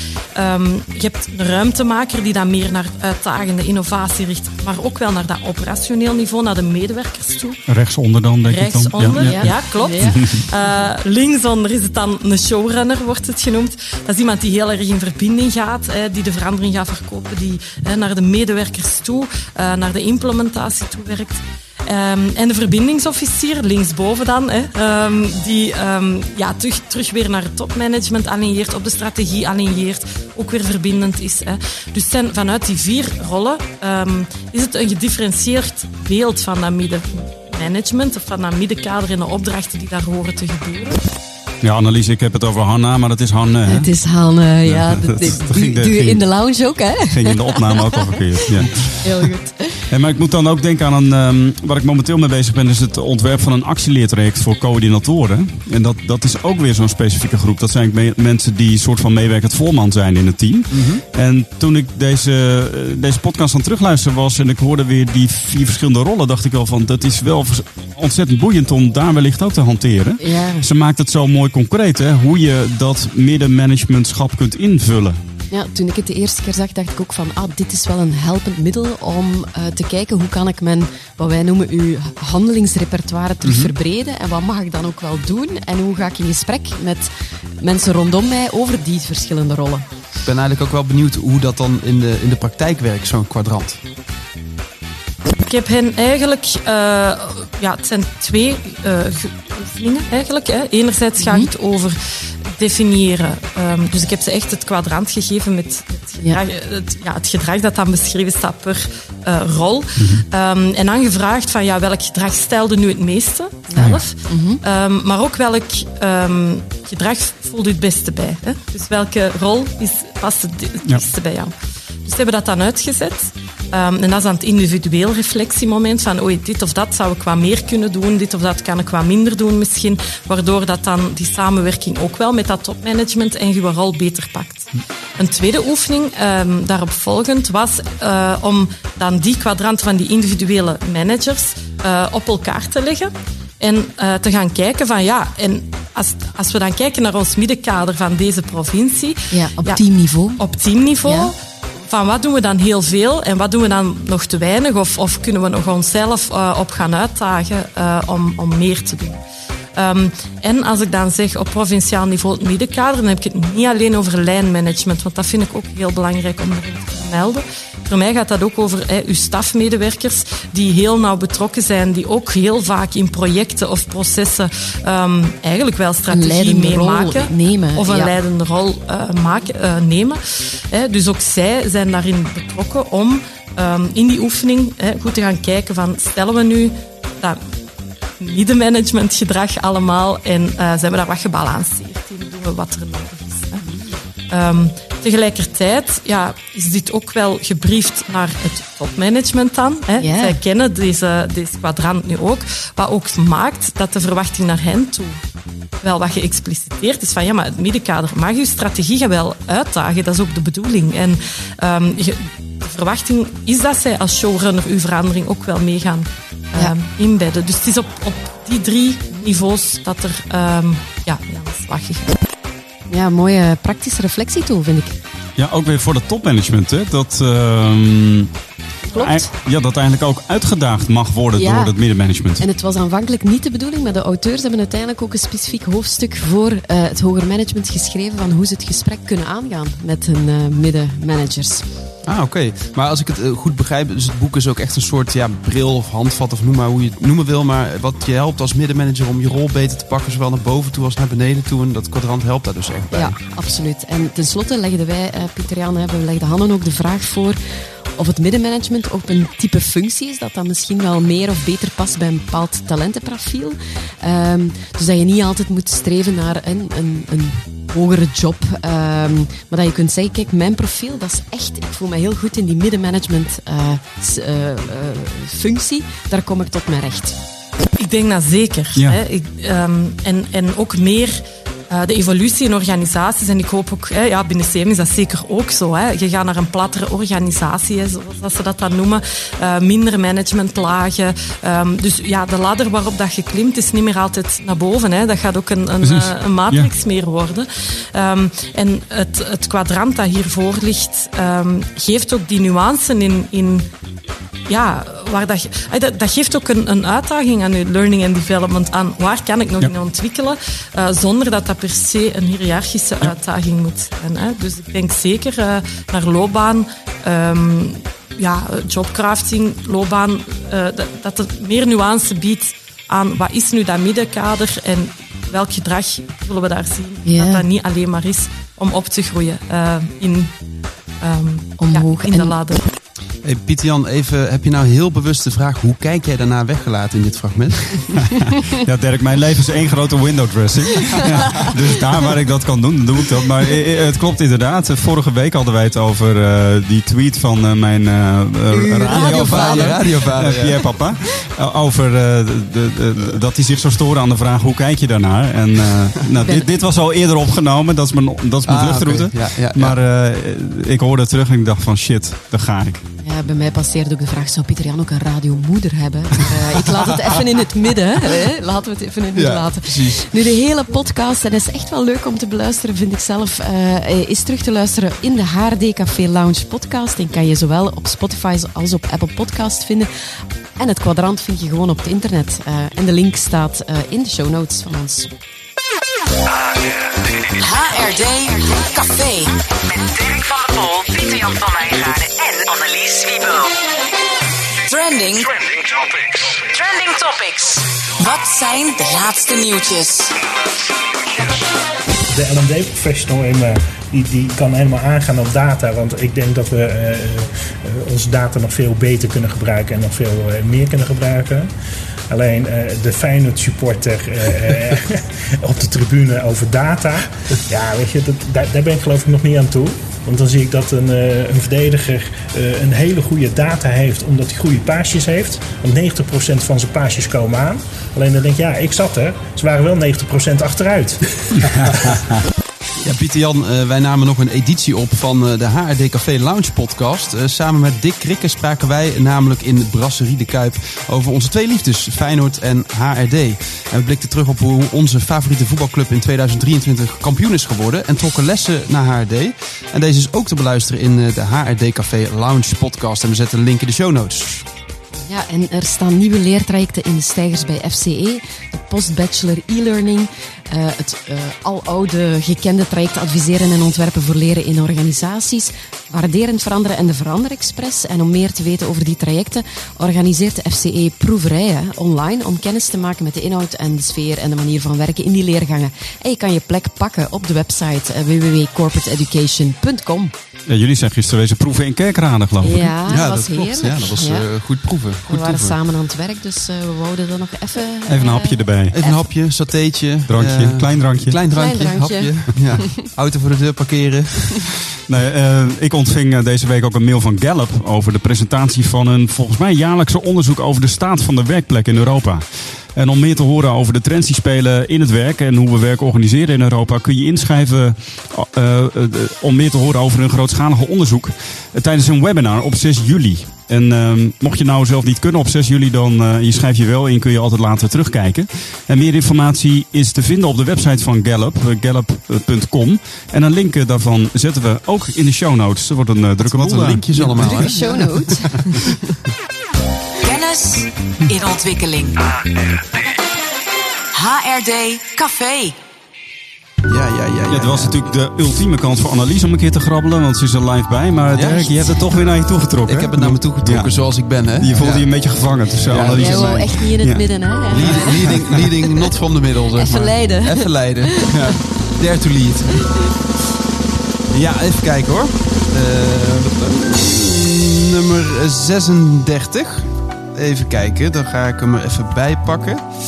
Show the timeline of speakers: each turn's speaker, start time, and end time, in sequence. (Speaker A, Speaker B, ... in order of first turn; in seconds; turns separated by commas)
Speaker A: 0.3-7.6, Speaker B: 7.7-10.2, Speaker A: 8.5-41.1, Speaker C: 9.2-10.4, Speaker B: 41.6-43.9, Speaker C: 43.7-49.8, Speaker B: 44.6-46.5, Speaker B: 47.0-49.1, Speaker B: 49.9-75.2, Speaker D: 60.7-61.0, Speaker C: 70.2-70.7, Speaker C: 75.5-87.1, Speaker D: 83.4-83.7, Speaker C: 87.6-89.8, Speaker D: 90.2-93.8, Speaker A: 95.4-102.0, Speaker C: 101.2-101.5, Speaker A: 102.6-121.5, Speaker B: 110.0-110.2, Speaker C: 113.7-114.6, Speaker A: 122.0-149.8, Speaker C: 149.3-150.4, Speaker A: 150.4-151.3, Speaker C: 151.0-151.3, Speaker A: 151.8-159.2, Speaker A: 159.8-180.2, Speaker C: 176.1-178.2, Speaker A: 180.7-187.4, Speaker A: 188.2-193.6, Speaker C: 193.6-194.0, Speaker A: 194.3-205.2, Speaker C: 200.0-200.4, Speaker A: 205.8-222.2, Speaker C: 222.9-225.0, Speaker B: 225.4-228.3, Speaker C: 228.9-229.3, Speaker B: 228.9-232.4, Speaker C: 231.3-231.8, Speaker C: 232.4-241.7, Speaker D: 242.1-253.2, Speaker C: 252.9-257.4, Speaker C: 258.0-277.2, Speaker A: 277.8-303.7, Speaker B: 295.8-296.7, Speaker A: 304.5-330.3, Speaker C: 327.1-327.4, Speaker A: 331.0-332.7, Speaker C: 331.6-332.4, Speaker D: 333.2-338.0, Speaker B: 338.5-362.9, Speaker C: 348.5-350.0, Speaker D: 349.0-350.6, Speaker C: 356.2-356.5, Speaker D: 358.5-359.8, Speaker C: 363.0-379.9, Speaker D: 369.1-370.1, Speaker C: 380.6-385.1, Speaker E: 387.4-393.5, Speaker E: 394.7-395.8, Speaker E: 396.3-400.1, Speaker F: 402.1-411.5, Speaker F: 412.1-431.9, Speaker D: 432.8-454.4, Speaker C: 455.0-480.1, Speaker B: 480.5-482.8, Speaker C: 482.4-484.3, Speaker D: 482.9-485.6, Speaker C: 485.1-489.1, Speaker B: 487.9-488.7, Speaker D: 488.7-494.6, Speaker B: 490.1-491.2, Speaker C: 491.3-492.9, Speaker B: 494.9-527.5, Speaker D: 526.2-528.6, Speaker C: 527.0-528.9, Speaker E: 530.0-532.0, Speaker E: 533.9-535.6, Speaker D: 536.7-537.8, Speaker B: 537.3-543.7, Speaker D: 541.1-541.9, Speaker D: 542.7-544.9, Speaker B: 544.4-547.9, Speaker D: 545.7-546.5, Speaker C: 545.9-548.8, Speaker D: 547.5-552.7, Speaker C: 549.5-551.4, Speaker D: 554.1-562.6